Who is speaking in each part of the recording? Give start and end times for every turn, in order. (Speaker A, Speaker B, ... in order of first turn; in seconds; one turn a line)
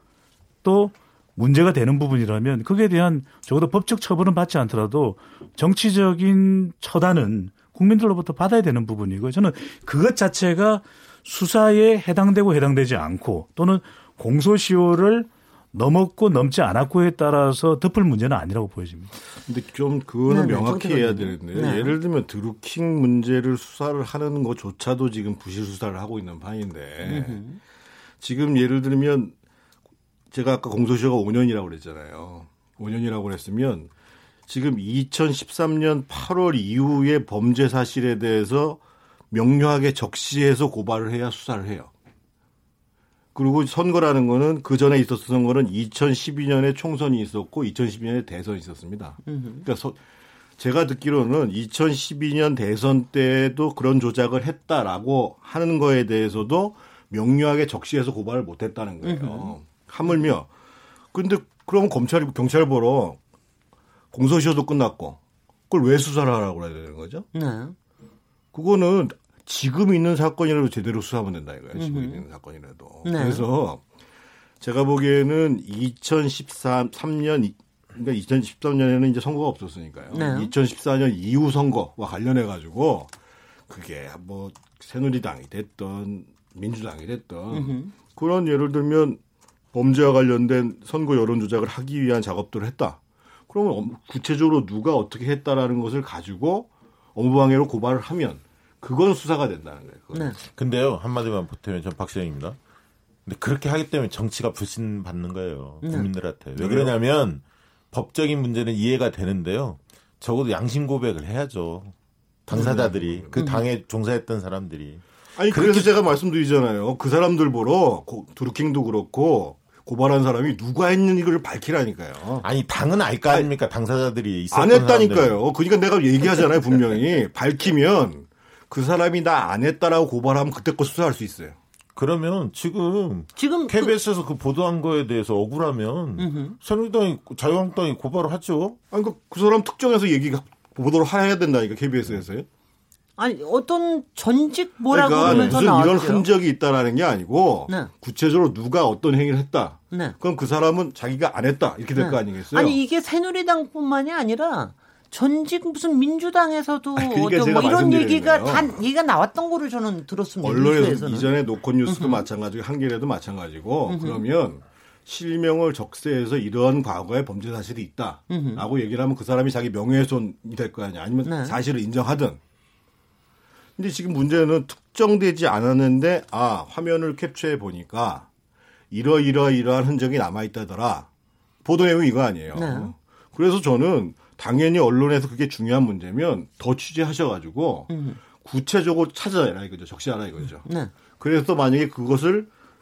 Speaker A: 0.6-19.1
Speaker B: 19.4-27.4
Speaker C: 20.3-21.9
Speaker C: 27.0-27.6
Speaker B: 28.2-29.3
Speaker B: 30.3-33.9
Speaker B: 34.5-41.9
Speaker B: 43.3-50.0
Speaker C: 49.2-49.6
Speaker B: 50.6-60.5
Speaker C: 59.0-59.5
Speaker B: 61.1-63.2
Speaker B: 64.1-65.2
Speaker B: 65.7-67.2
Speaker C: 67.3-67.8
Speaker B: 68.5-73.8
Speaker C: 71.7-72.2
Speaker C: 73.0-73.5
Speaker B: 74.6-83.1
Speaker C: 80.1-80.5
Speaker B: 83.7-89.2
Speaker C: 87.5-87.9
Speaker B: 89.7-100.3
Speaker C: 100.1-100.4
Speaker D: 100.5-102.6
Speaker D: 103.2-111.9
Speaker C: 105.8-106.1
Speaker B: 106.6-106.9
Speaker D: 112.5-115.9
Speaker B: 112.5-113.3
Speaker C: 113.3-113.6
Speaker B: 115.3-122.5
Speaker D: 122.4-125.4
Speaker B: 124.5-131.6
Speaker D: 131.9-138.8
Speaker C: 133.4-133.9
Speaker C: 136.2-136.6
Speaker B: 138.9-142.4
Speaker C: 143.2-146.2
Speaker B: 144.9-152.8
Speaker D: 145.2-145.6
Speaker C: 151.9-161.3
Speaker B: 156.9-158.8
Speaker B: 160.4-172.4
Speaker C: 161.9-162.2
Speaker C: 163.9-164.2
Speaker C: 168.3-168.6
Speaker C: 171.2-171.6
Speaker B: 173.8-178.3
Speaker B: 178.9-181.1
Speaker B: 181.6-192.5
Speaker C: 182.5-182.9
Speaker C: 187.9-188.2
Speaker C: 190.6-190.9